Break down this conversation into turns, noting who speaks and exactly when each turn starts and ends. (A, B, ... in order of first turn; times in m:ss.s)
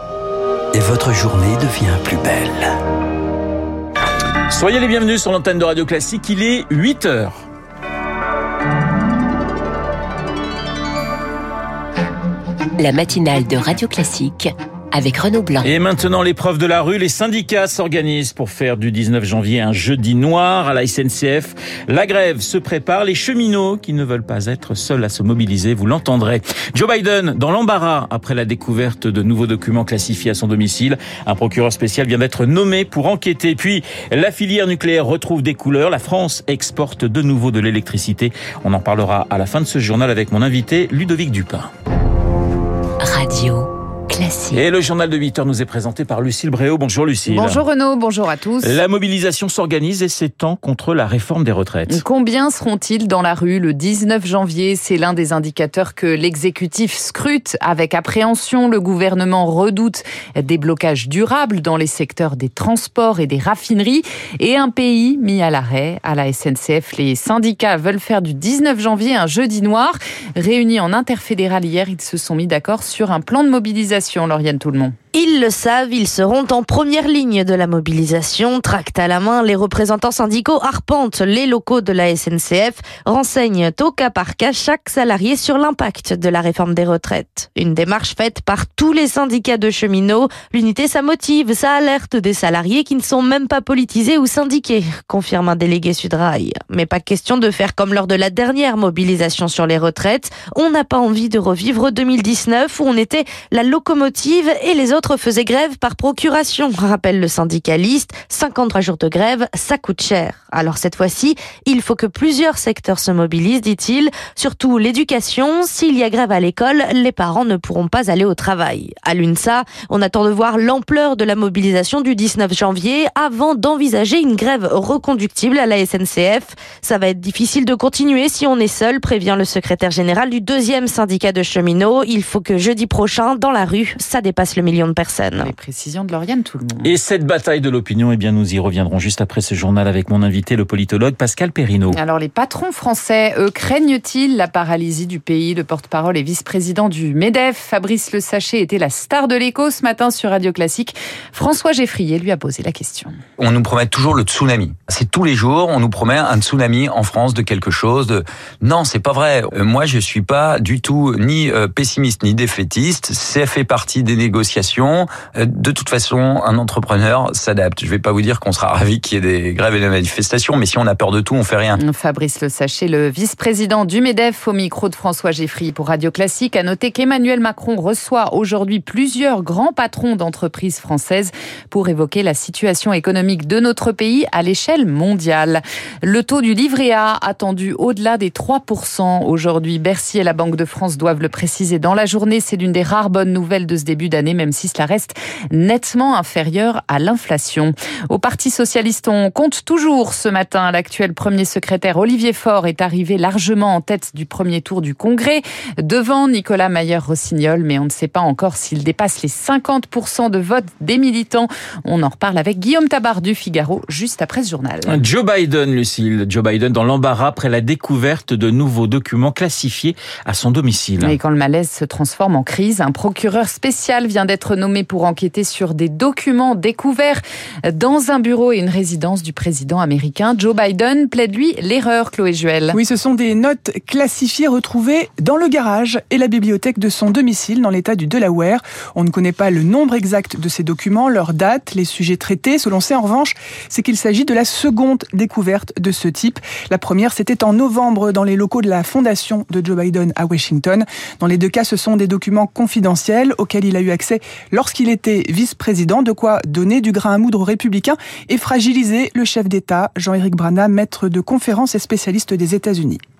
0:00.7-0:02.7 A
0:04.5-0:07.4 B
0:12.8-0:15.7 C
0:15.6-0:41.7 B
0:43.0-0:44.6 C
0:44.5-0:47.6 B
0:47.2-0:48.8 D
0:48.6-0:52.0 B
0:51.9-1:14.9 D
1:15.1-2:15.5 E
2:15.4-2:16.9 D
2:16.8-2:22.0 B
2:21.9-2:33.2 D
2:33.4-2:51.8 F
2:51.8-3:35.0 D
3:34.9-3:41.2 B
3:41.0-3:52.8 D
3:52.7-4:23.0 G